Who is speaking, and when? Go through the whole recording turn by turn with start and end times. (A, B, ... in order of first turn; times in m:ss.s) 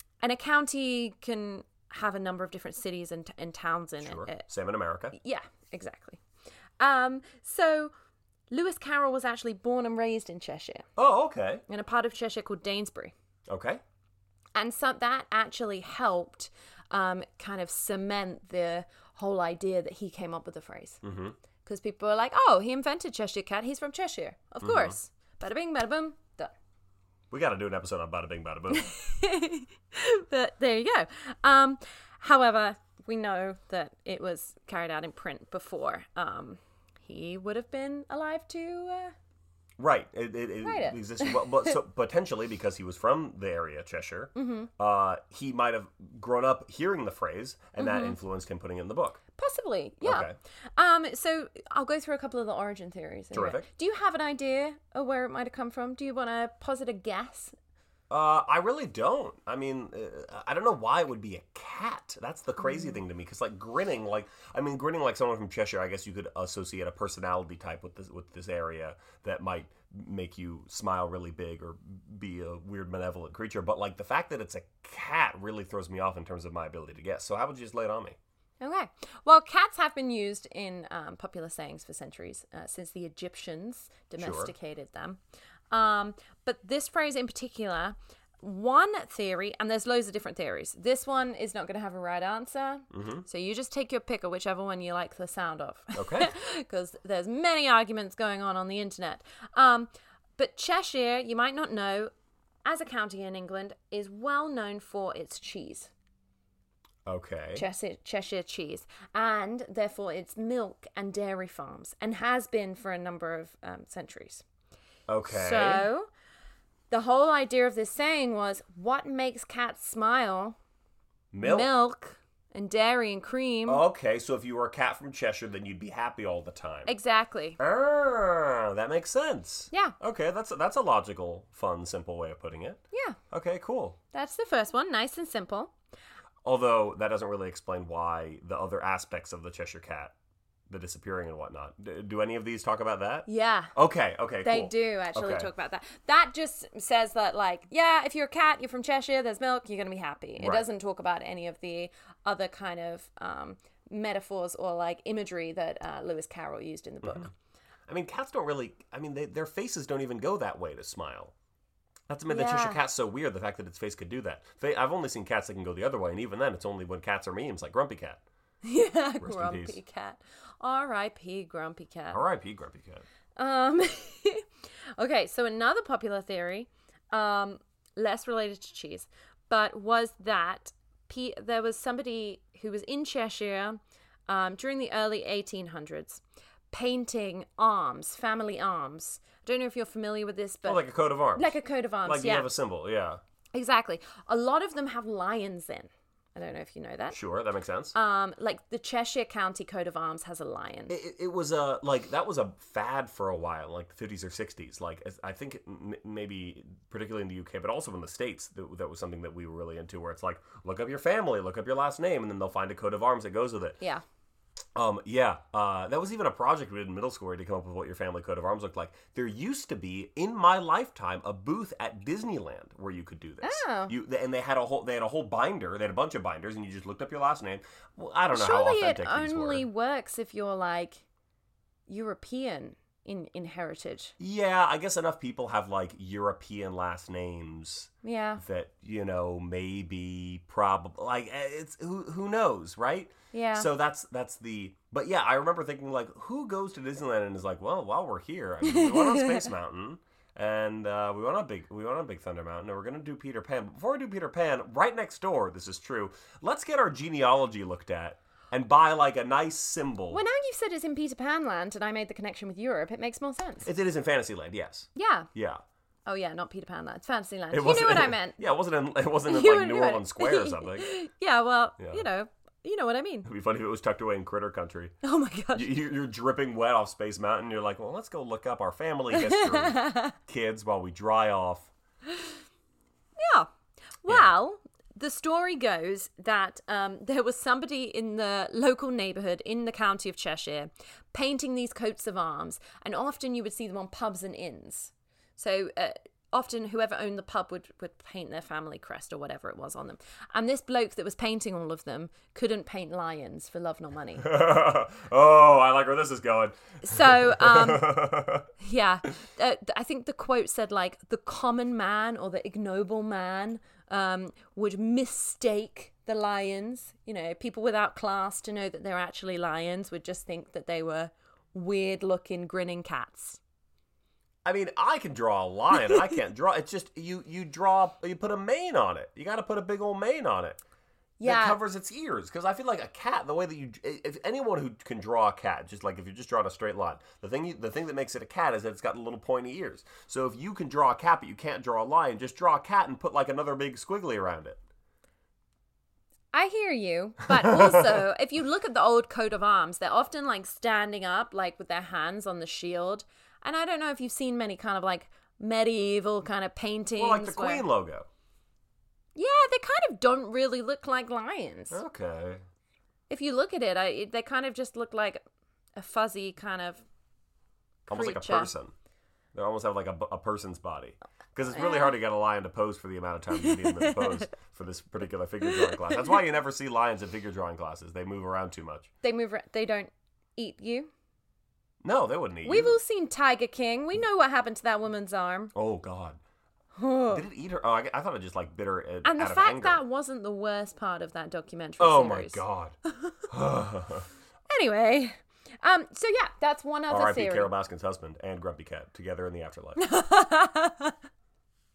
0:00.2-0:04.4 A
0:04.0-0:05.2 B
0:05.1-0:06.2 A
0:06.8-0:07.9 A
0:08.5-0:10.9 A
0:11.0-0:11.6 B
0:11.7-0:13.1 A
0:13.5-0:13.8 B
0:14.5-0:21.0 A
0:21.0-0:21.4 B
0:21.6-0:26.5 A
0:24.6-0:25.0 B
0:27.3-0:28.9 B
0:28.7-0:39.1 A
0:39.8-0:49.2 B
0:40.6-0:41.8 A
0:44.3-0:44.7 A
0:47.8-0:48.2 A
0:49.4-0:57.5 A
0:50.0-0:50.4 B
0:53.3-0:53.7 B
0:58.1-1:18.2 B
1:02.7-1:03.0 A
1:18.6-1:25.2 A
1:24.2-1:24.5 B
1:25.7-1:42.1 A
1:32.9-1:33.2 B
1:36.0-1:36.3 B
1:42.6-1:45.9 A
1:47.0-1:47.6 B
1:47.5-1:54.4 A
1:55.1-1:55.9 B
1:55.2-1:56.1 A
1:56.9-2:00.6 A
2:01.3-2:01.7 B
2:01.4-2:03.8 A
2:03.6-2:06.9 B
2:06.8-2:07.6 A
2:07.6-2:14.0 B
2:12.9-2:13.2 A
2:14.1-2:15.7 A
2:16.4-2:20.1 B
2:20.7-2:25.5 B
2:23.3-2:23.7 A
2:24.4-2:37.3 A
2:30.4-2:30.6 B
2:37.0-2:37.3 B
2:37.9-2:41.3 B
2:42.1-2:48.2 B
2:42.3-2:42.8 A
2:48.6-2:52.2 A
2:49.2-2:49.8 B
2:52.1-2:53.0 B
2:53.4-2:54.4 A
2:55.0-3:10.8 A
3:10.6-3:13.2 B
3:11.3-3:12.5 A
3:13.5-3:17.2 A
3:17.1-3:17.9 B
3:17.9-3:20.9 A
3:20.9-3:33.8 B
3:34.7-3:49.6 B
3:43.4-3:43.9 A
3:48.3-3:51.0 A
3:51.9-3:54.1 A
3:54.2-4:20.2 B
3:58.0-3:58.4 A
4:03.3-4:03.7 A
4:08.6-4:09.5 A
4:20.1-4:23.7 A
4:23.6-4:25.6 B
4:25.0-4:25.3 A
4:26.0-4:28.4 A
4:27.5-4:30.9 B
4:29.3-4:33.3 A
4:31.8-4:32.0 B
4:33.2-4:35.0 B
4:35.0-4:35.7 A
4:35.5-4:41.7 B
4:39.1-4:40.2 A
4:43.2-4:43.5 A
4:44.0-5:04.2 A
5:04.2-5:08.5 B
5:06.8-5:08.0 A
5:08.6-5:23.4 A
5:24.4-5:30.6 B
5:31.2-5:31.6 A
5:31.2-5:44.6 B
5:46.3-5:57.6 A
5:47.4-5:48.0 B
5:57.0-5:58.1 B
5:59.1-6:01.8 A
6:01.7-6:02.4 B
6:03.1-6:05.2 A
6:05.8-6:06.8 A
6:07.9-6:08.5 A
6:07.9-6:08.7 B
6:09.3-6:18.9 B
6:11.5-6:12.0 A
6:13.4-6:14.3 A
6:15.5-6:16.0 A
6:19.0-6:20.9 A
6:21.8-6:22.8 B
6:22.4-6:25.5 A
6:25.5-6:26.2 B
6:26.8-6:27.2 A
6:27.1-6:29.8 B
6:29.0-6:32.4 A
6:31.8-6:32.8 B
6:33.3-6:34.1 B
6:34.5-6:37.5 A
6:36.9-6:39.8 B
6:39.8-6:41.0 A